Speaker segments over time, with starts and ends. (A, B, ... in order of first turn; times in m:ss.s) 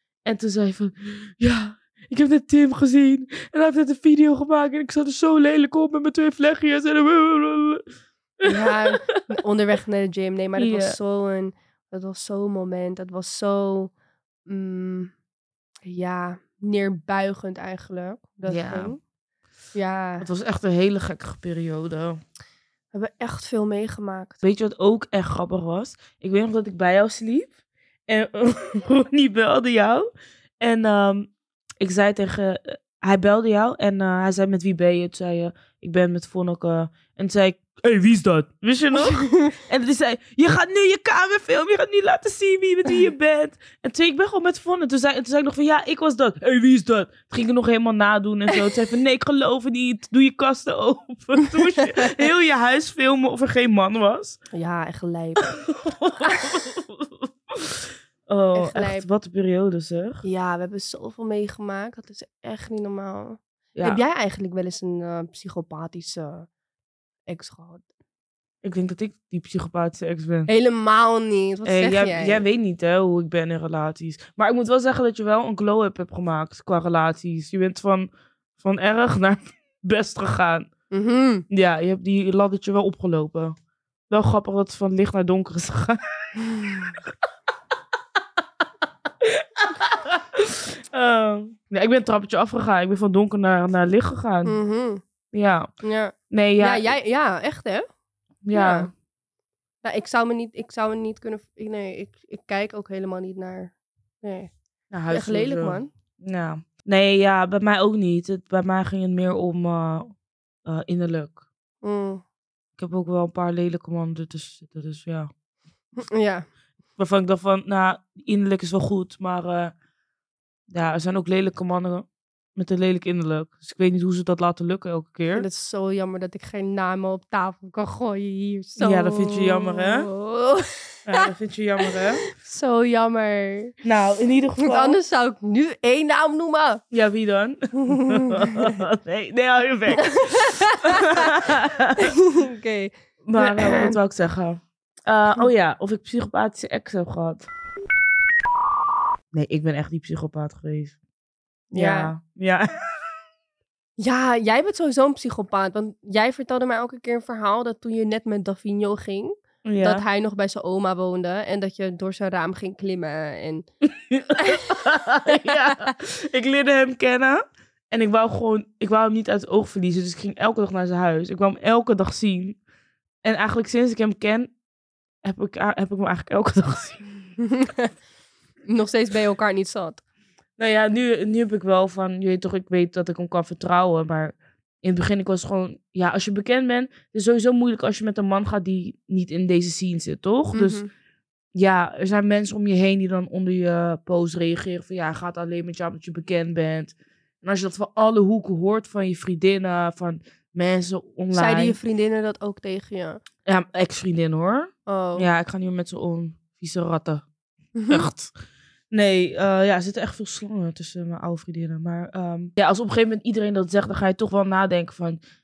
0:00.2-0:07.8 A
0:08.4-0:09.2 A
0:08.4-0:13.9 B
0:10.6-0:11.0 A
0:14.5-0:15.1 B
0:15.8-0:19.0 B
0:18.5-0:19.0 A
0:19.7-0:20.3 B
0:20.2-0:22.2 A
0:22.9-0:24.4 B
0:24.4-0:27.5 A
0:28.1-0:30.1 A
0:30.6-0:54.4 A
0:39.0-0:39.6 B
0:54.5-0:55.5 B
0:55.6-1:00.2 A
0:56.2-0:56.6 B
0:58.6-0:59.1 B
1:00.2-1:06.5 B
1:03.8-1:04.0 A
1:07.3-1:07.8 B
1:08.6-1:10.5 A
1:10.5-1:12.4 B
1:11.6-1:20.7 A
1:20.9-1:21.5 B
1:21.5-1:23.6 A
1:24.1-1:26.3 A
1:29.2-1:34.6 A
1:34.4-1:35.0 B
1:35.3-1:35.7 A
1:35.8-1:37.9 B
1:36.3-1:36.9 A
1:38.4-1:38.9 A
1:38.5-1:38.9 B
1:39.8-1:44.5 B
1:44.9-1:50.1 A
1:45.1-1:45.9 B
1:50.6-1:51.4 A
1:51.8-1:52.2 B
1:52.8-1:55.3 A
1:56.0-1:56.5 B
1:57.0-1:59.7 A
2:00.7-2:05.5 A
2:05.3-2:11.3 B
2:08.8-2:10.1 A
2:11.1-2:12.2 A
2:11.9-2:13.8 B
2:13.8-2:15.0 A
2:14.6-2:16.8 B
2:16.9-2:22.1 A
2:17.8-2:18.7 B
2:20.0-2:21.3 B
2:22.0-2:24.0 B
2:23.2-2:27.5 A
2:29.3-2:31.0 A
2:31.7-2:32.1 B
2:31.7-2:32.8 A
2:34.0-2:43.7 B
2:39.6-2:40.0 A
2:43.9-2:52.6 A
2:44.4-2:44.8 B
2:45.3-2:45.9 B
2:53.2-2:54.5 A
2:55.2-2:57.0 A
2:57.4-2:57.9 B
2:58.7-3:00.0 B
3:00.6-3:10.8 A
3:10.5-3:10.9 B
3:11.6-3:21.8 A
3:21.3-3:23.2 B
3:23.5-3:27.2 A
3:24.9-3:25.3 B
3:27.8-3:28.1 B
3:27.9-3:28.3 A
3:28.9-3:35.2 A